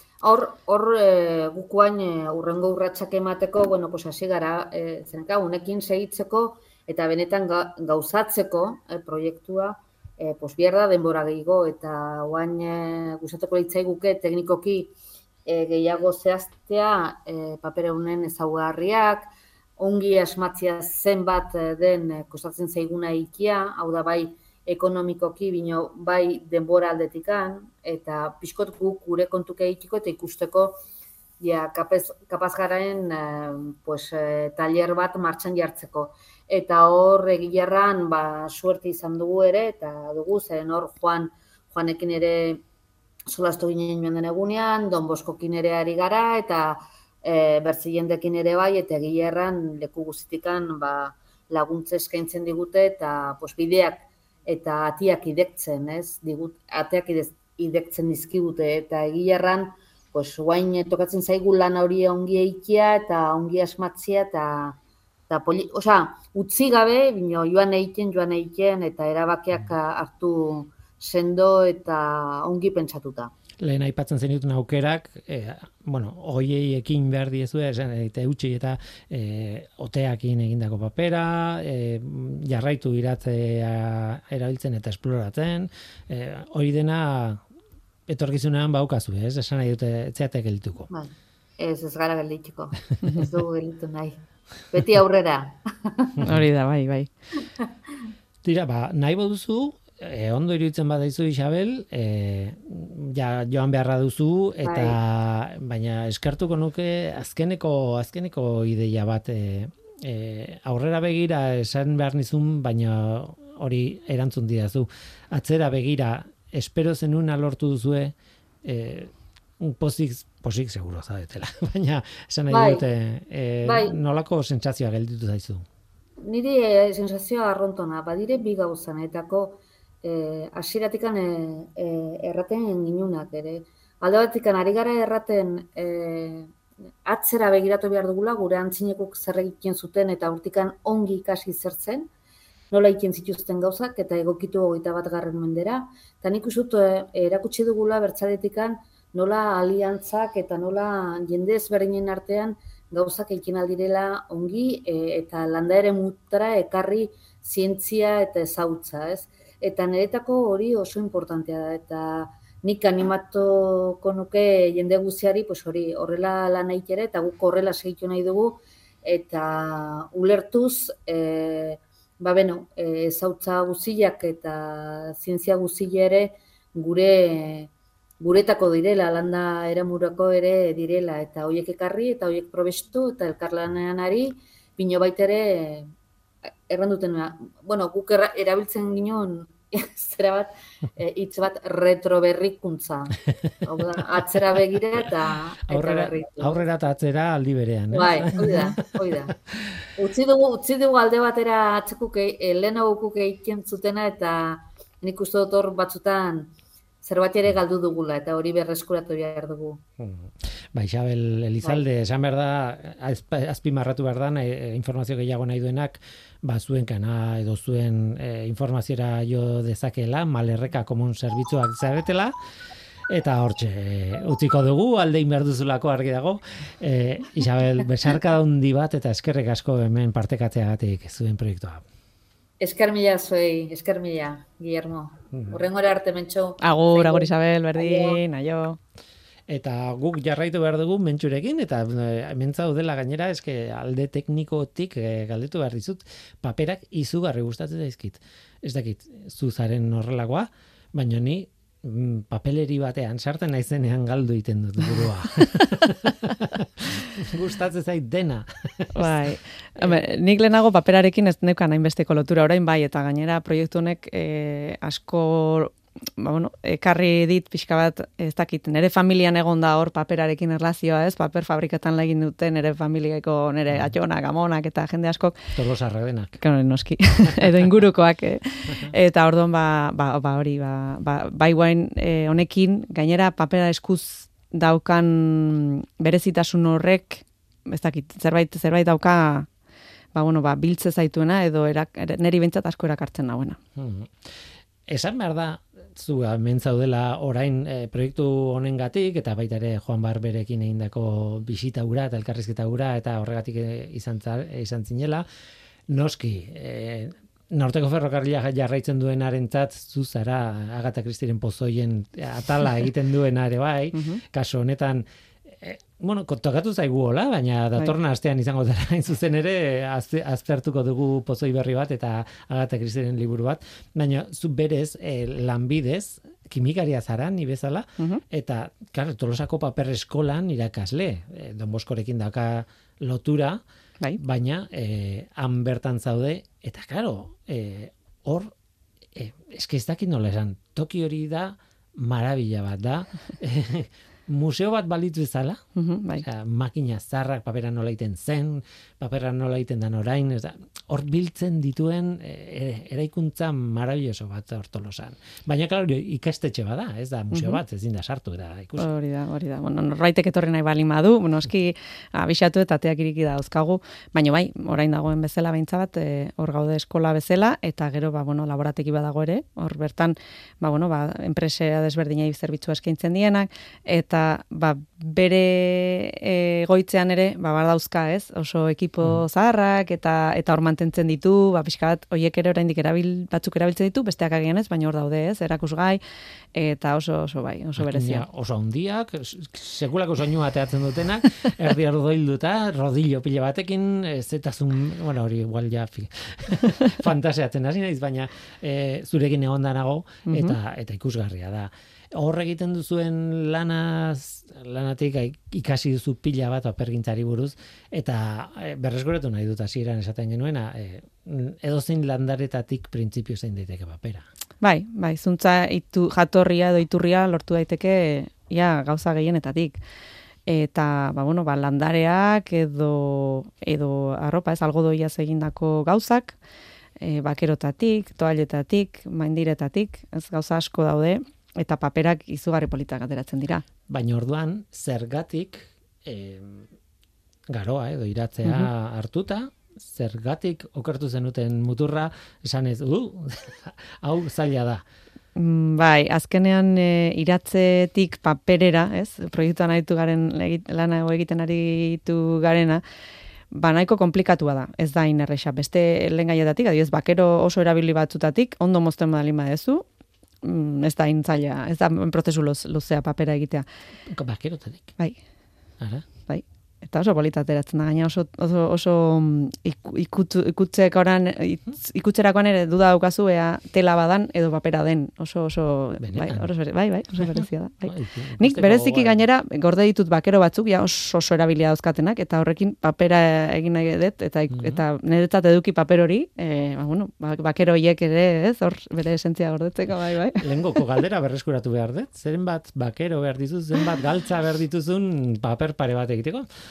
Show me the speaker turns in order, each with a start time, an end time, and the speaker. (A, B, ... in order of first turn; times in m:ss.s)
0:00.2-0:15.0 A
0:15.5-0:30.8 A
0:31.4-0:42.6 A
0:43.3-1:04.8 A
1:05.3-1:13.3 A
1:13.6-1:27.4 B
1:28.1-1:30.9 B
1:30.9-1:36.2 A
1:36.2-1:37.1 C
1:38.4-2:05.7 B
1:44.6-1:45.0 A
2:02.5-2:02.8 A
2:03.6-2:04.0 A
2:06.2-2:16.5 A
2:17.0-2:22.1 A
2:22.7-3:05.9 A
3:06.7-3:16.6 A
3:15.7-3:18.8 B
3:17.9-3:19.4 A
3:20.0-3:29.8 A
3:30.0-3:42.3 B
3:43.1-3:51.8 B
3:52.6-3:58.2 A
3:55.3-3:55.6 B
3:56.6-3:58.8 C
3:59.5-4:19.2 B
4:19.0-4:35.5 C
4:35.6-4:36.4 B
4:36.4-4:49.5 C
4:50.1-4:53.6 C
4:53.8-4:54.4 B
4:54.9-5:05.2 B
5:05.9-5:33.6 B
5:13.9-5:14.2 C
5:34.2-5:38.5 B
5:39.1-5:45.6 B
5:45.8-5:46.2 C
5:46.2-5:58.9 B
5:57.3-5:57.6 C
5:58.8-6:26.0 C
6:26.6-6:28.2 C
6:27.8-6:54.2 B
6:40.3-6:40.6 C
6:54.6-6:59.8 C
7:00.5-7:06.4 C
7:07.0-7:13.6 C
7:13.9-7:16.7 B
7:17.5-7:24.8 B
7:25.4-7:32.8 C
7:33.5-7:39.8 C
7:40.4-7:43.6 C
7:44.1-7:44.9 B
7:45.8-7:46.1 B
7:46.3-8:10.5 C
7:56.0-7:56.5 B
7:57.2-7:59.2 B
8:04.5-8:04.8 B
8:10.4-8:16.5 B